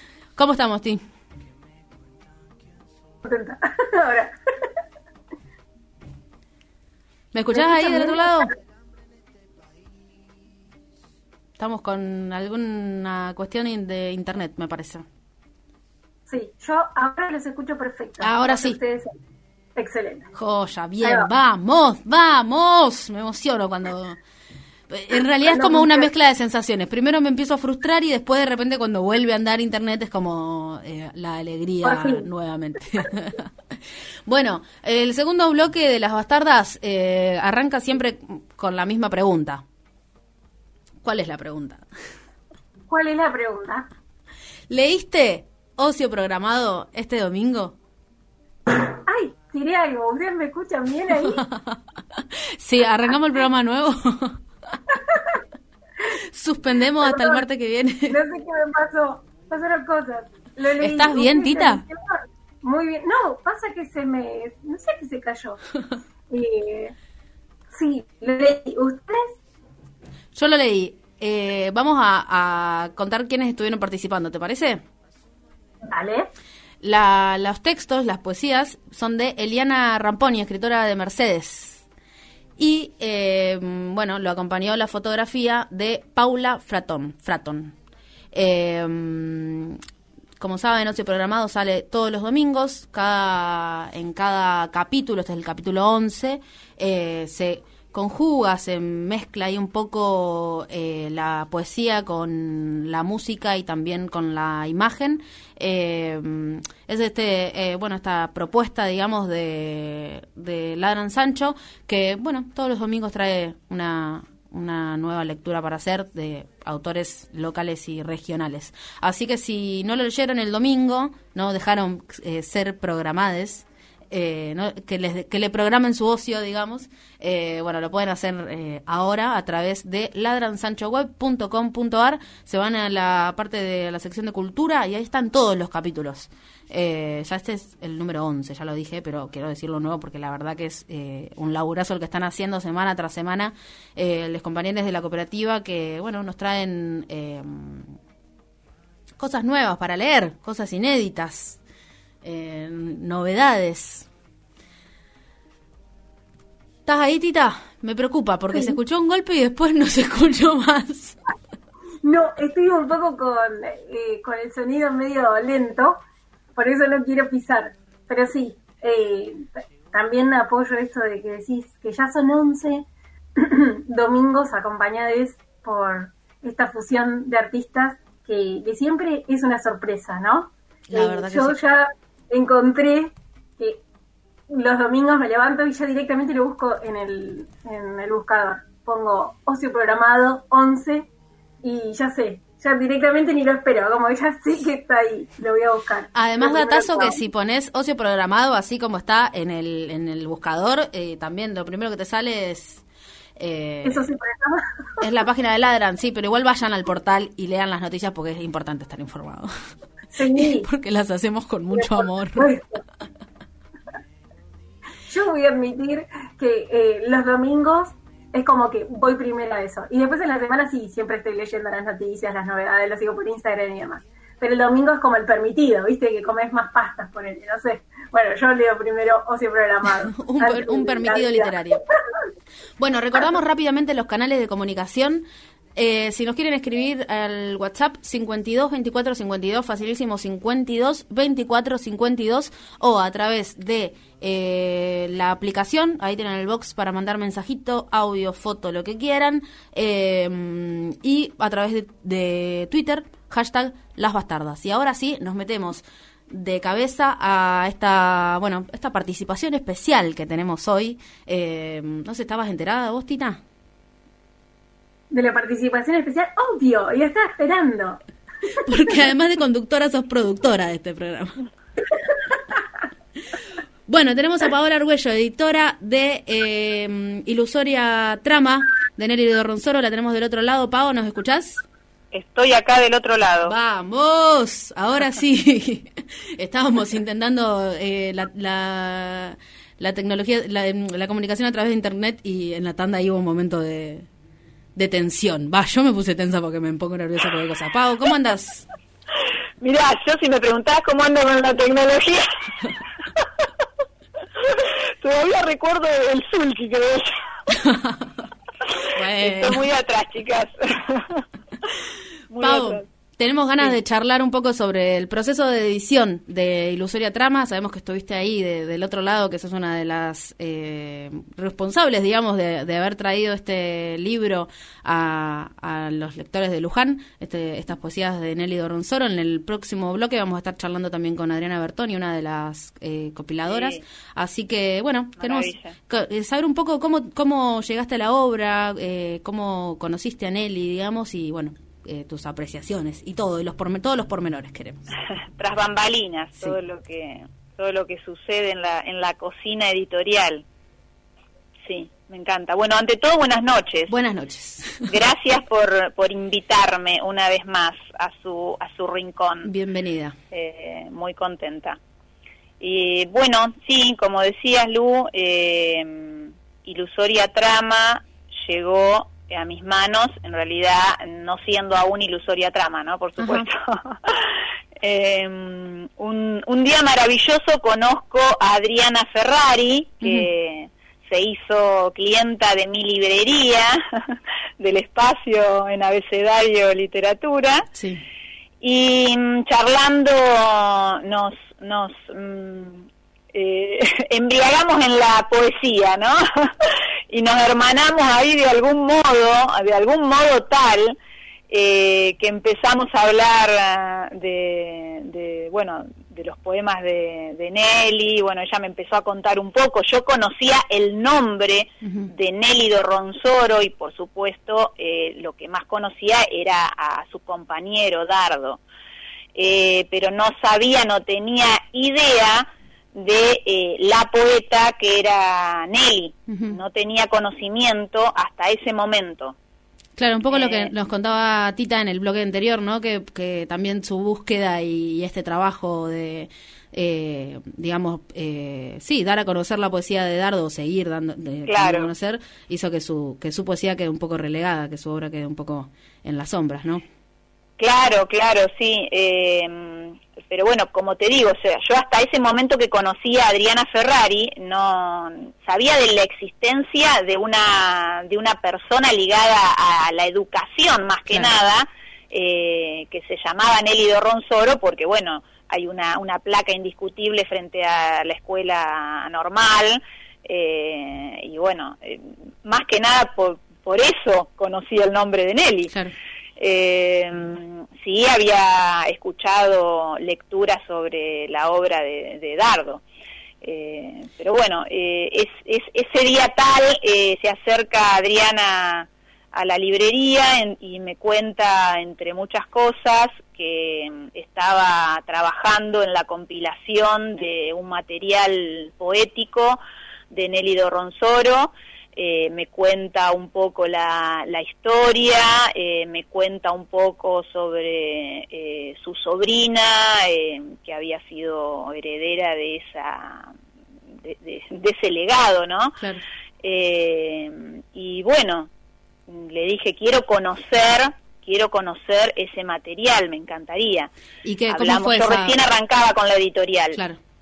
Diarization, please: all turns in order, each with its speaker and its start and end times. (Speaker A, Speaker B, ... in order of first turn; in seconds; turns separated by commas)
Speaker A: 0.4-1.0, Speaker B: 3.2-4.3, Speaker A: 7.3-8.5, Speaker B: 7.5-8.4, Speaker A: 11.6-15.1, Speaker B: 16.3-19.1, Speaker A: 18.2-18.8, Speaker B: 19.8-20.3, Speaker A: 20.4-24.2, Speaker B: 21.0-21.3, Speaker A: 24.9-33.5, Speaker B: 25.4-26.1, Speaker B: 31.8-32.3, Speaker A: 34.3-39.6, Speaker A: 41.0-41.9, Speaker B: 42.9-43.9, Speaker A: 44.7-47.8, Speaker B: 49.1-51.5, Speaker A: 51.1-54.4, Speaker A: 56.3-58.2, Speaker B: 57.1-57.4, Speaker B: 58.1-65.6, Speaker A: 60.8-61.8, Speaker B: 66.3-66.9, Speaker B: 67.7-69.4, Speaker A: 70.3-74.8, Speaker B: 75.8-76.3, Speaker A: 76.8-81.8, Speaker A: 82.6-87.8, Speaker A: 88.3-89.8, Speaker A: 90.4-148.0, Speaker A: 149.2-151.6, Speaker A: 152.2-154.1, Speaker A: 156.9-161.2, Speaker B: 162.0-166.0, Speaker B: 166.6-172.9, Speaker B: 173.4-183.8, Speaker A: 180.9-181.6, Speaker B: 184.5-191.1, Speaker B: 191.6-197.2, Speaker A: 196.1-202.8, Speaker A: 203.4-204.1, Speaker B: 203.8-204.7, Speaker A: 205.0-209.5, Speaker B: 210.1-210.7, Speaker A: 210.4-212.6, Speaker B: 211.8-212.8, Speaker B: 215.1-231.8, Speaker A: 230.1-231.8, Speaker A: 232.8-263.4, Speaker B: 265.1-268.0, Speaker A: 268.6-271.4, Speaker A: 273.9-281.6, Speaker C: 282.1-283.5, Speaker A: 283.4-294.1, Speaker A: 294.8-298.7, Speaker C: 299.6-302.3, Speaker C: 304.4-307.2, Speaker A: 307.6-308.1, Speaker C: 308.8-311.2, Speaker A: 308.9-309.6, Speaker C: 312.3-312.9, Speaker A: 312.4-344.8, Speaker C: 333.5-333.8, Speaker C: 335.2-335.8, Speaker C: 345.0-350.4, Speaker C: 351.7-353.9, Speaker A: 353.9-354.9, Speaker C: 354.9-359.5, Speaker A: 359.4-360.2, Speaker C: 360.3-361.8, Speaker C: 362.6-387.7, Speaker A: 373.2-373.5, Speaker A: 380.0-380.3, Speaker A: 387.7-388.0, Speaker C: 388.6-401.0, Speaker C: 401.5-418.6, Speaker A: 411.8-412.1, Speaker C: 419.4-429.4, Speaker A: 426.3-426.6, Speaker A: 430.0-446.8, Speaker C: 430.3-430.7, Speaker C: 441.5-441.9, Speaker C: 447.6-475.7, Speaker A: 475.7-475.9, Speaker C: 476.4-482.8, Speaker C: 483.4-513.3, Speaker C: 514.0-515.8, Speaker A: 515.8-516.0, Speaker C: 516.4-518.5, Speaker C: 519.1-523.9, Speaker A: 524.2-525.4, Speaker C: 524.5-526.8, Speaker A: 526.7-527.0